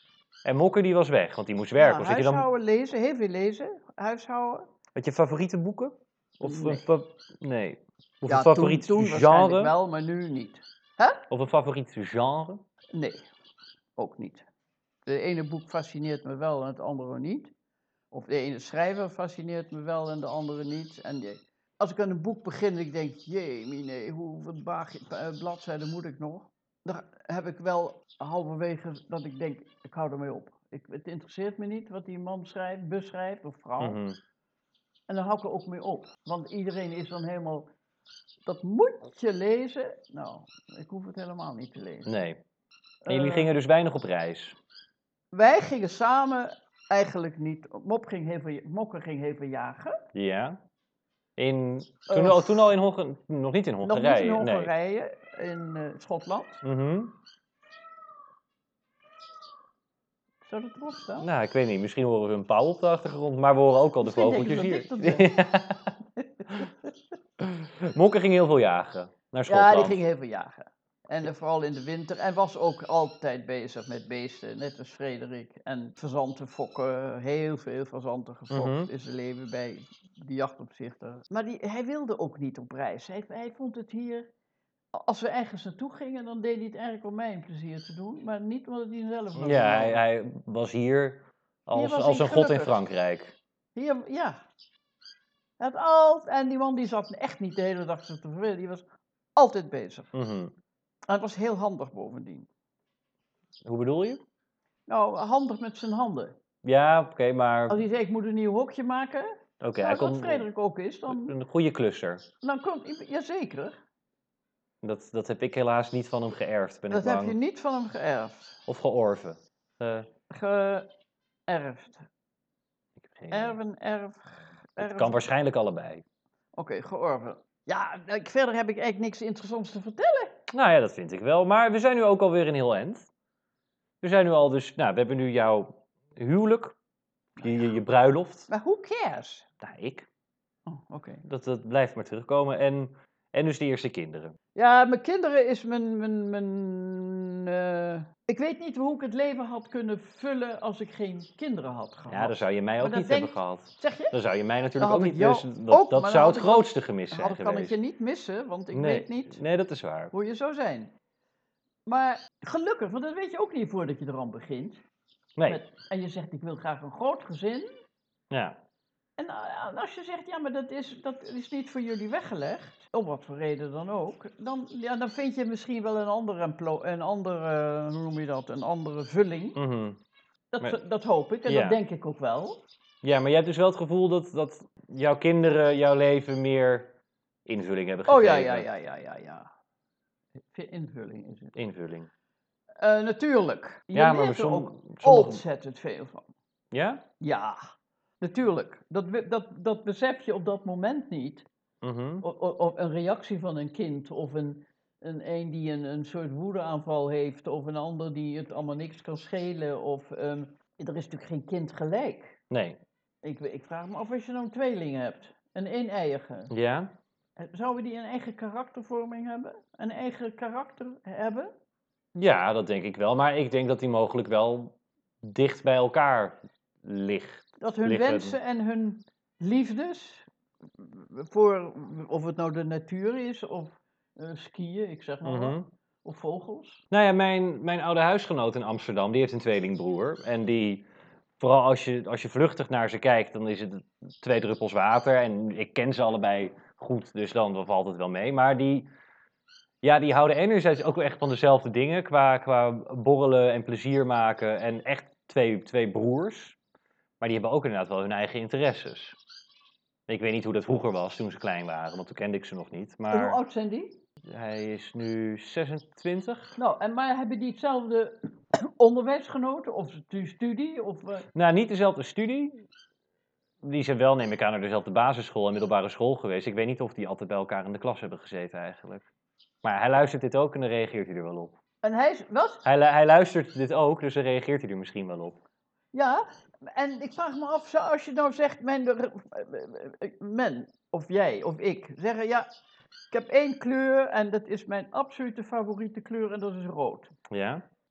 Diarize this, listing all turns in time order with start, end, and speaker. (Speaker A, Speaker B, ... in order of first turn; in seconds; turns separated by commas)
Speaker A: 0.4-2.5, Speaker B: 1.8-4.7, Speaker A: 5.0-9.7, Speaker B: 6.4-6.8, Speaker B: 8.3-11.2, Speaker A: 11.3-12.6, Speaker B: 12.9-13.2, Speaker B: 14.0-14.5, Speaker B: 15.1-17.5, Speaker B: 18.1-34.0, Speaker A: 33.8-34.2, Speaker B: 35.1-37.7, Speaker B: 38.5-42.1, Speaker A: 42.1-42.4, Speaker B: 43.0-43.5, Speaker A: 43.1-44.6, Speaker B: 45.3-50.0, Speaker A: 50.1-50.6, Speaker A: 51.4-54.7, Speaker B: 52.1-52.7, Speaker B: 53.8-56.6, Speaker A: 56.6-57.1, Speaker B: 60.5-61.3, Speaker A: 61.2-65.9, Speaker B: 64.0-65.4, Speaker B: 66.2-66.7, Speaker A: 67.4-70.0, Speaker B: 69.5-84.3, Speaker A: 78.5-78.9, Speaker B: 84.9-90.0, Speaker A: 89.4-93.4, Speaker B: 91.8-92.8, Speaker B: 93.8-94.4, Speaker B: 95.6-100.1, Speaker A: 100.1-100.5, Speaker B: 101.1-102.5, Speaker A: 103.7-104.2, Speaker B: 104.9-106.4, Speaker A: 106.6-107.8, Speaker B: 107.7-111.4, Speaker A: 109.6-110.5, Speaker A: 111.1-112.2, Speaker B: 112.4-113.8, Speaker A: 114.8-117.4, Speaker B: 116.9-118.6, Speaker A: 118.7-120.1, Speaker B: 120.3-120.9, Speaker B: 121.5-122.1, Speaker A: 123.0-123.6, Speaker B: 123.3-125.3, Speaker A: 124.8-126.0, Speaker B: 126.6-130.4, Speaker A: 130.5-133.1, Speaker A: 134.0-136.8, Speaker A: 137.4-138.5, Speaker B: 138.5-139.5, Speaker A: 139.6-140.1, Speaker B: 140.7-141.2, Speaker A: 141.2-144.4, Speaker B: 144.6-154.2, Speaker A: 152.1-157.8, Speaker B: 154.8-159.4, Speaker A: 158.7-160.1, Speaker B: 160.1-160.9, Speaker B: 161.9-164.8, Speaker B: 165.5-167.7, Speaker A: 168.3-168.6, Speaker B: 169.2-179.6, Speaker A: 179.6-180.0, Speaker B: 180.5-182.6, Speaker A: 181.5-181.8, Speaker A: 183.0-186.9, Speaker A: 187.5-188.7, Speaker B: 188.1-189.5, Speaker B: 190.5-191.6, Speaker A: 191.6-192.1, Speaker B: 192.8-196.3, Speaker A: 193.9-195.4, Speaker A: 196.7-197.1, Speaker B: 197.2-197.6, Speaker B: 198.2-201.5, Speaker A: 201.8-202.2, Speaker B: 202.2-212.4, Speaker A: 212.5-212.8, Speaker B: 213.2-216.5, Speaker A: 216.5-216.9, Speaker B: 217.4-221.5, Speaker A: 222.2-228.4, Speaker B: 227.6-230.3, Speaker B: 230.8-236.8, Speaker A: 235.2-235.7, Speaker A: 236.9-240.9, Speaker A: 241.4-248.9, Speaker A: 249.8-256.6, Speaker A: 257.2-259.2, Speaker A: 260.1-263.4, Speaker B: 263.1-264.0, Speaker A: 264.3-266.6, Speaker B: 266.6-271.3, Speaker A: 271.3-272.7, Speaker A: 273.6-279.1, Speaker A: 279.6-281.6, Speaker B: 281.8-282.6, Speaker A: 282.6-285.4, Speaker B: 285.9-292.5, Speaker B: 293.1-297.1, Speaker A: 297.3-297.6